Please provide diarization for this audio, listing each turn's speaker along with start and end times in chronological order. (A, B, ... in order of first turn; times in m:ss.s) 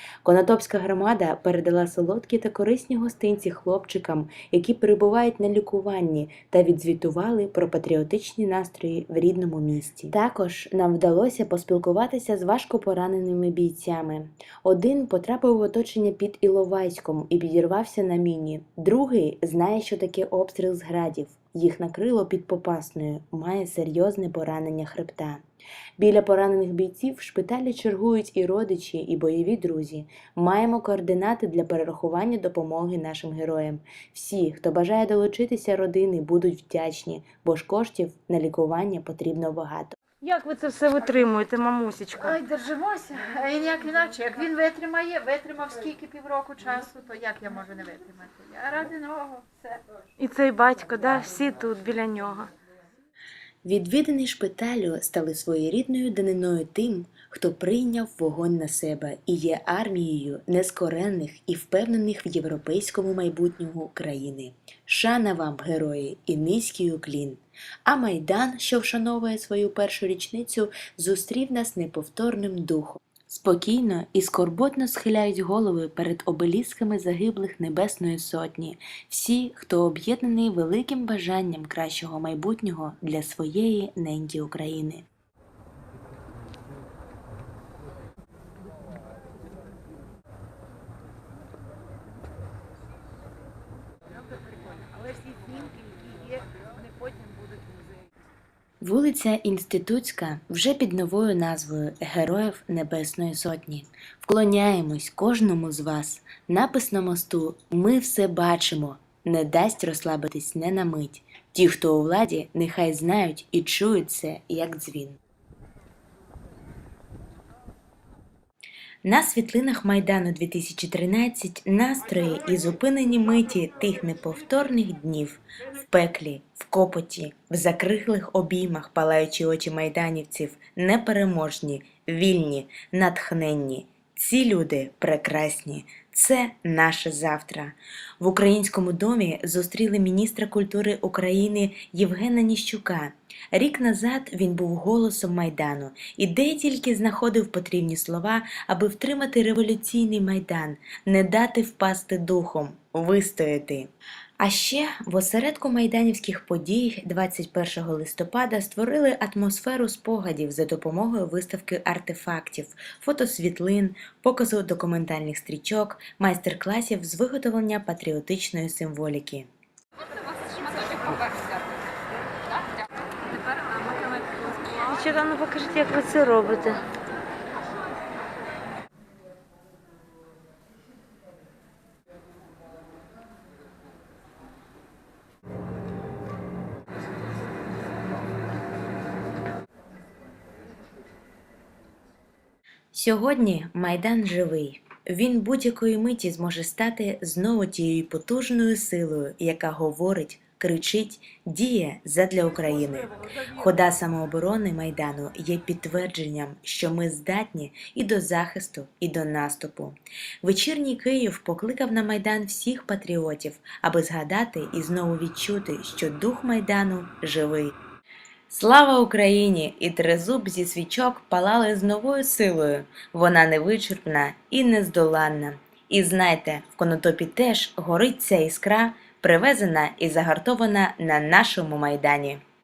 0:00.2-0:25.4 A
0:26.0-0:40.0 A
0:40.2-0:42.5 B
0:42.6-0:49.5 C
0:50.2-0:52.5 B
0:53.6-1:25.1 A
1:35.0-1:35.9 C
1:38.8-1:55.2 A
1:59.0-2:49.5 A
2:54.7-2:56.8 B
3:12.9-3:37.7 A
3:38.5-3:52.4 A